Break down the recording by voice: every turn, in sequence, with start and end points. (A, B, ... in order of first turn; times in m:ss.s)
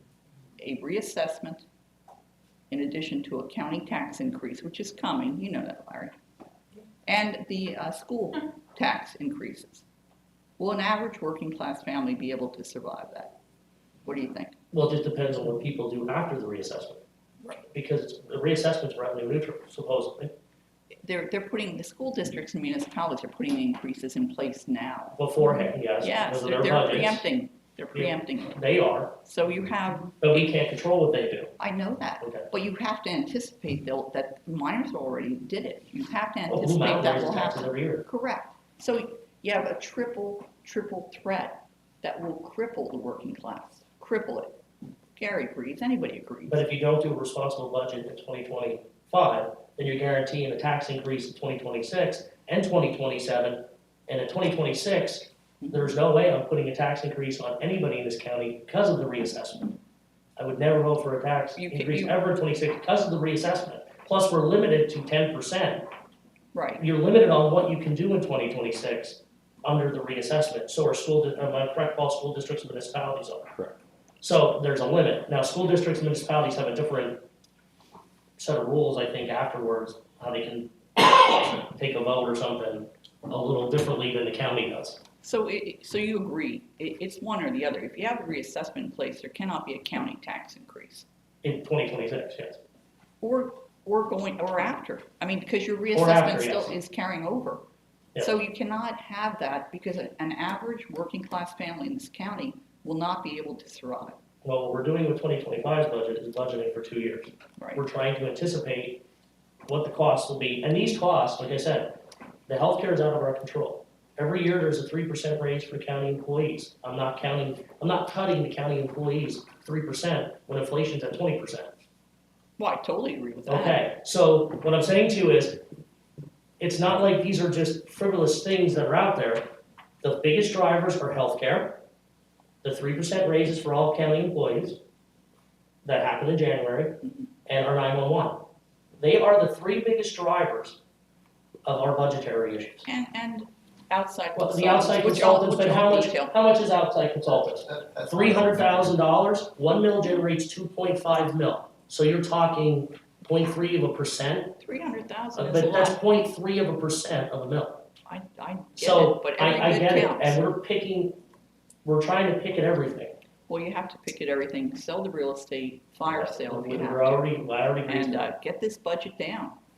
0:00.6-0:01.7 A
0:02.7-0:06.2 A
0:07.1-0:09.8 A
0:10.6-0:13.4 A
0:14.0-0:14.6 A
0:14.7-0:17.0 B
0:17.7-0:20.3 B
0:21.0-0:28.6 A
0:25.2-0:27.3 B
0:28.0-0:29.2 B
0:29.2-0:30.2 A
0:30.2-0:31.5 B
0:31.6-0:44.6 A
0:32.2-0:32.5 B
0:36.5-0:38.0 B
0:45.2-0:46.6 A
0:46.5-0:59.8 B
1:00.4-1:05.8 B
1:01.6-1:02.2 A
1:06.5-1:06.8 A
1:06.8-1:13.5 B
1:14.2-1:17.2 B
1:18.4-1:25.0 B
1:25.2-1:31.1 A
1:31.4-1:32.6 B
1:33.2-1:37.6 A
1:35.9-1:36.8 B
1:38.2-1:44.2 A
1:44.4-1:49.0 B
1:49.7-1:52.0 B
1:52.5-2:01.7 B
2:02.6-2:03.9 A
2:03.5-2:05.6 B
2:06.6-2:09.4 B
2:10.0-2:11.8 B
2:12.6-2:14.8 B
2:15.8-2:18.4 B
2:19.0-2:20.8 B
2:21.6-2:22.9 B
2:22.9-2:26.4 A
2:24.4-2:34.6 B
2:34.6-2:36.0 A
2:35.4-2:37.8 B
2:38.1-2:40.4 A
2:38.8-2:41.2 B
2:41.8-2:43.2 B
2:43.5-2:49.6 A
2:46.1-2:48.3 B